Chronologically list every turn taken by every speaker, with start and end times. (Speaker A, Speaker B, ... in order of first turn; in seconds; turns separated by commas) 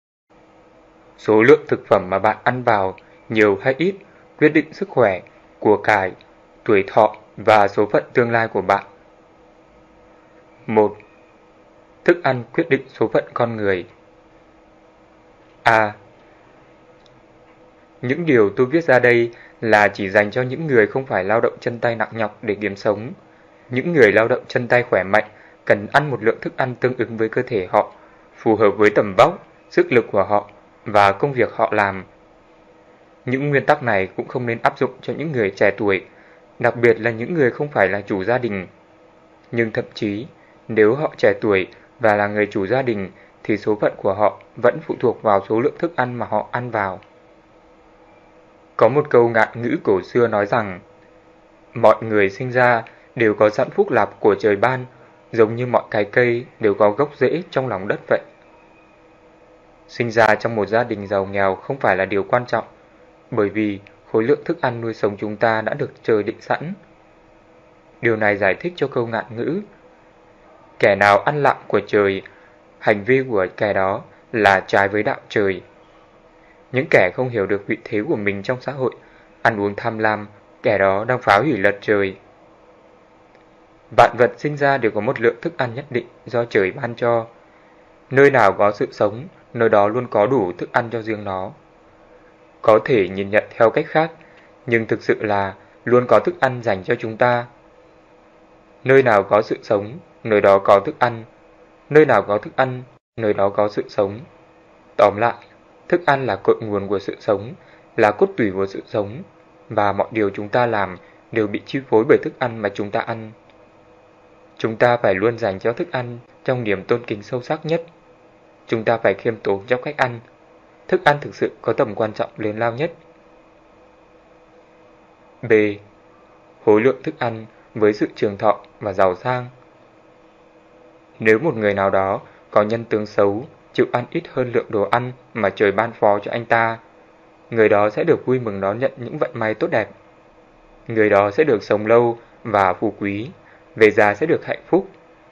Speaker A: 1.2-8.8, Speaker A: 10.7-10.9, Speaker A: 12.0-13.9, Speaker A: 15.6-16.0, Speaker A: 18.0-23.1, Speaker A: 23.7-32.1, Speaker A: 33.2-36.0, Speaker A: 36.6-38.7, Speaker A: 39.5-47.0, Speaker A: 48.8-50.8, Speaker A: 51.7-58.2, Speaker A: 59.9-62.7, Speaker A: 63.3-66.8, Speaker A: 68.0-69.6, Speaker A: 70.8-72.2, Speaker A: 72.8-75.6, Speaker A: 76.7-82.2, Speaker A: 83.9-87.3, Speaker A: 88.1-91.5, Speaker A: 92.6-94.2, Speaker A: 94.7-97.5, Speaker A: 98.8-101.3, Speaker A: 101.9-104.2, Speaker A: 105.0-113.3, Speaker A: 114.6-117.9, Speaker A: 118.7-120.2, Speaker A: 120.9-123.0, Speaker A: 125.4-125.8, Speaker A: 126.6-129.5, Speaker A: 131.2-136.8, Speaker A: 137.5-139.9, Speaker A: 140.9-144.9